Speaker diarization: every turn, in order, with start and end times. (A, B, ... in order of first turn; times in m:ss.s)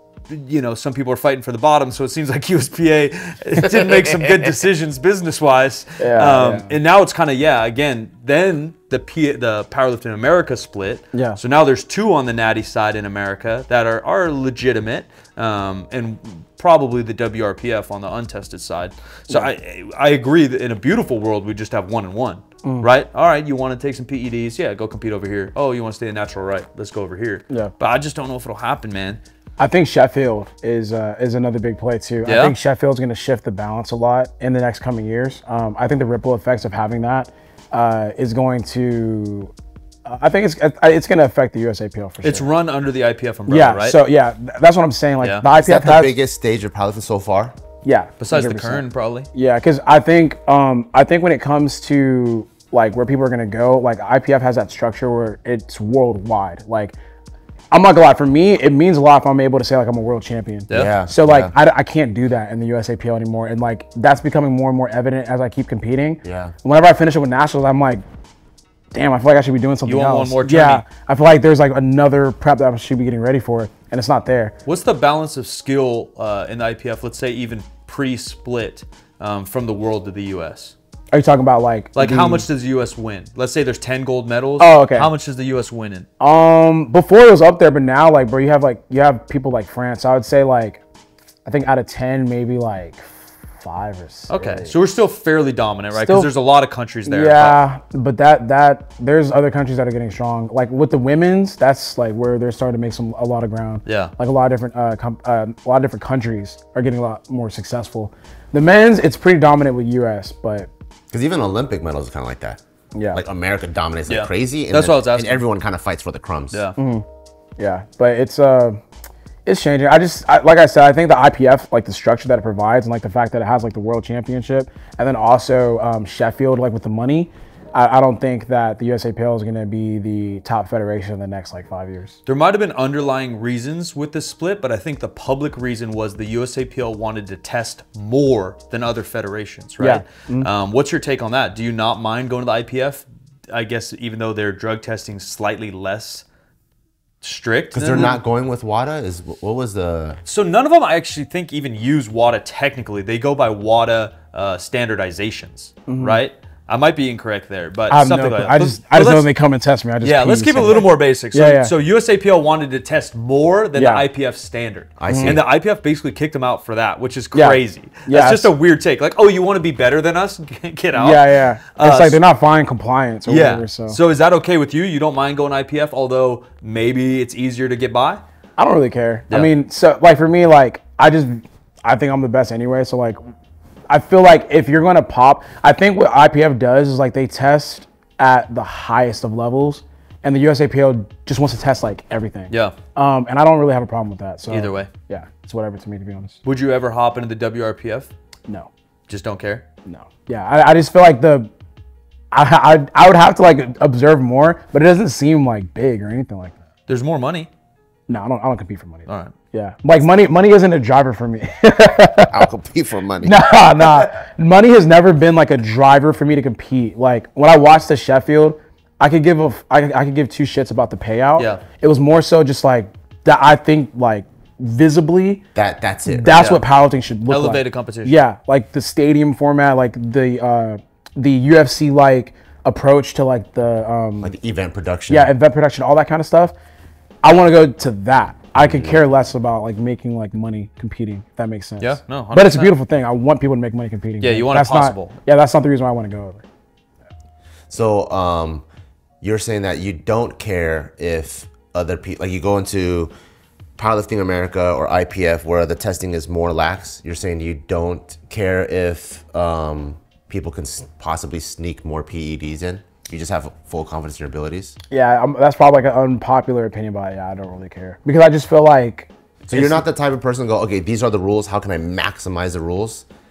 0:00.3-0:29.2 A
0:06.0-0:06.8 B
0:11.1-0:11.4 B
0:29.6-0:39.5 B
0:32.2-0:32.6 A
0:40.0-0:42.5 B
0:42.2-0:44.0 A
0:43.5-0:46.1 B
0:45.2-0:45.5 A
0:45.5-0:47.5 C
0:47.8-0:57.0 B
0:48.2-0:49.3 A
0:57.7-1:08.0 B
1:00.7-1:00.9 A
1:00.7-1:01.5 C
1:06.2-1:06.5 C
1:08.9-1:14.5 B
1:09.8-1:10.8 A
1:14.6-1:20.7 A
1:21.1-1:22.5 B
1:21.9-1:26.1 A
1:24.6-1:25.1 B
1:26.2-1:30.8 B
1:31.4-1:34.7 B
1:34.3-1:37.6 A
1:35.9-1:36.3 B
1:37.0-1:50.7 B
1:43.8-1:44.1 A
1:51.1-1:52.6 C
1:52.9-1:53.2 B
1:53.1-1:56.6 C
1:54.1-1:55.4 A
1:56.5-1:56.8 A
1:56.8-1:57.0 B
1:57.6-1:58.8 B
1:59.4-2:12.2 B
2:12.2-2:26.2 A
2:19.8-2:20.5 B
2:27.2-2:28.2 A
2:27.7-2:30.2 C
2:30.2-2:39.3 A
2:35.9-2:36.2 B
2:37.9-2:41.7 B
2:40.0-2:52.2 A
2:43.8-2:44.0 B
2:45.0-2:45.4 C
2:45.1-2:45.4 B
2:47.3-2:48.5 B
2:50.9-2:54.0 B
2:53.2-2:58.2 A
2:58.6-3:03.2 B
3:03.9-3:16.4 B
3:12.5-3:12.8 A
3:14.5-3:14.9 A
3:16.4-3:18.1 A
3:19.1-3:19.6 A
3:19.8-3:21.5 B
3:22.3-3:26.6 B
3:26.9-3:27.5 A
3:28.1-3:32.4 B
3:29.1-3:29.3 A
3:32.3-3:33.4 C
3:33.2-3:45.4 B
3:41.4-3:41.6 A
3:45.5-3:46.3 C
3:46.1-3:54.3 B
3:46.3-3:46.6 A
3:47.2-3:48.2 A
3:54.2-3:55.3 C
3:55.1-3:56.5 B
3:57.2-4:06.4 B
3:58.5-3:59.0 C
4:01.8-4:02.8 A
4:04.2-4:05.2 A
4:07.7-4:08.6 C
4:09.2-4:13.1 C
4:13.8-4:24.8 C
4:24.9-4:29.9 B
4:29.4-4:33.0 C